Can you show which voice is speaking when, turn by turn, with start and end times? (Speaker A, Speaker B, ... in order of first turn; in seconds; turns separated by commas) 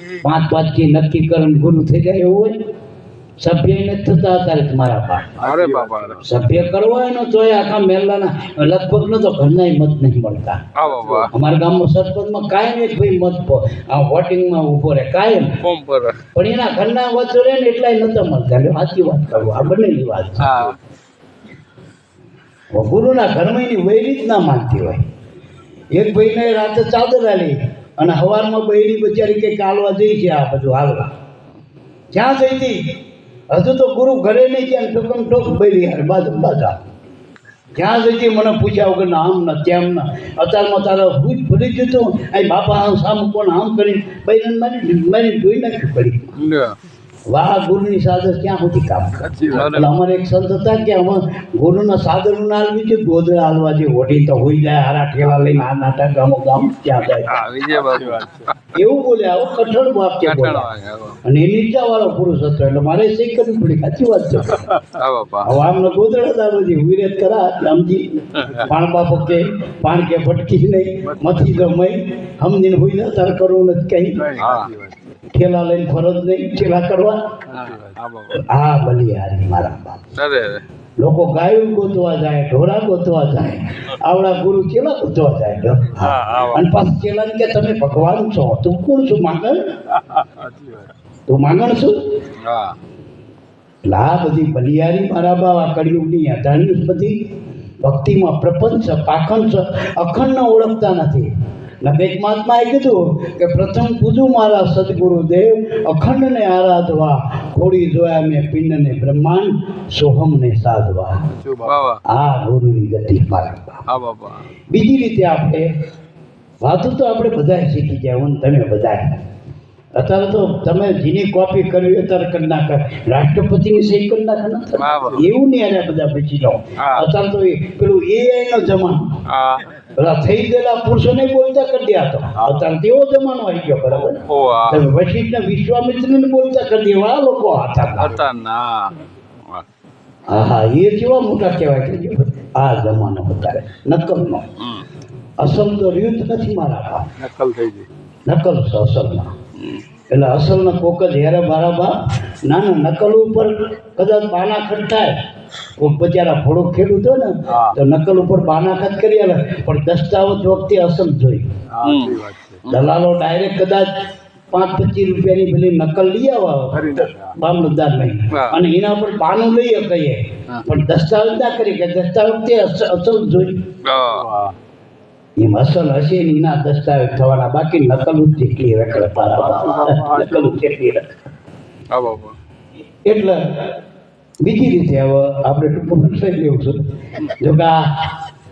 Speaker A: 0.2-2.6, Speaker A: 3.4-5.3, Speaker B: 5.4-6.3, Speaker C: 5.4-6.2, Speaker A: 6.2-10.7, Speaker C: 10.8-11.3, Speaker B: 10.8-11.3, Speaker A: 11.3-15.6, Speaker C: 15.6-16.2, Speaker A: 16.3-20.6, Speaker C: 20.4-20.8, Speaker A: 22.7-25.1, Speaker A: 25.9-31.1, Speaker A: 32.1-33.0, Speaker A: 33.5-36.8, Speaker A: 37.8-46.4, Speaker C: 46.4-46.8, Speaker A: 47.3-57.4, Speaker B: 49.2-49.9, Speaker C: 49.5-50.0, Speaker C: 57.1-58.6, Speaker B: 57.7-58.5, Speaker A: 58.7-60.7, Speaker C: 60.2-61.2, Speaker A: 61.2-64.7, Speaker C: 65.0-65.6, Speaker A: 65.4-74.3, Speaker B: 68.5-68.7, Speaker B: 71.0-71.7, Speaker B: 74.1-75.2, Speaker C: 74.4-74.7, Speaker A: 75.3-77.4, Speaker B: 77.5-78.0, Speaker C: 77.5-78.5, Speaker A: 78.3-80.0, Speaker C: 80.2-80.6, Speaker A: 81.0-89.6, Speaker C: 86.0-86.7, Speaker B: 89.9-90.9, Speaker A: 91.3-92.1, Speaker C: 92.4-92.8, Speaker A: 93.8-97.2, Speaker A: 97.8-101.3, Speaker A: 101.8-111.2, Speaker B: 111.3-111.9, Speaker C: 111.7-112.0, Speaker A: 112.1-113.8, Speaker C: 113.9-114.5, Speaker A: 114.7-115.7, Speaker A: 116.6-119.2, Speaker A: 120.0-129.2, Speaker C: 124.8-125.2, Speaker B: 125.0-125.3, Speaker C: 126.8-127.0, Speaker C: 129.3-129.7, Speaker A: 130.0-138.2, Speaker B: 132.3-132.7, Speaker C: 133.9-134.9, Speaker C: 138.0-139.0, Speaker A: 140.3-144.5, Speaker C: 144.6-144.9, Speaker A: 145.4-147.1, Speaker B: 147.2-147.9, Speaker A: 148.3-149.3, Speaker A: 150.1-155.2, Speaker A: 155.8-161.5, Speaker B: 157.5-157.8, Speaker B: 161.7-162.7, Speaker C: 161.8-162.9, Speaker A: 162.7-163.9, Speaker A: 164.5-173.7, Speaker B: 166.7-167.4, Speaker C: 168.3-168.6, Speaker C: 173.8-174.2, Speaker B: 173.9-174.6, Speaker A: 175.4-181.1, Speaker B: 179.3-180.6, Speaker C: 181.9-182.4, Speaker A: 183.1-183.8, Speaker A: 184.4-188.2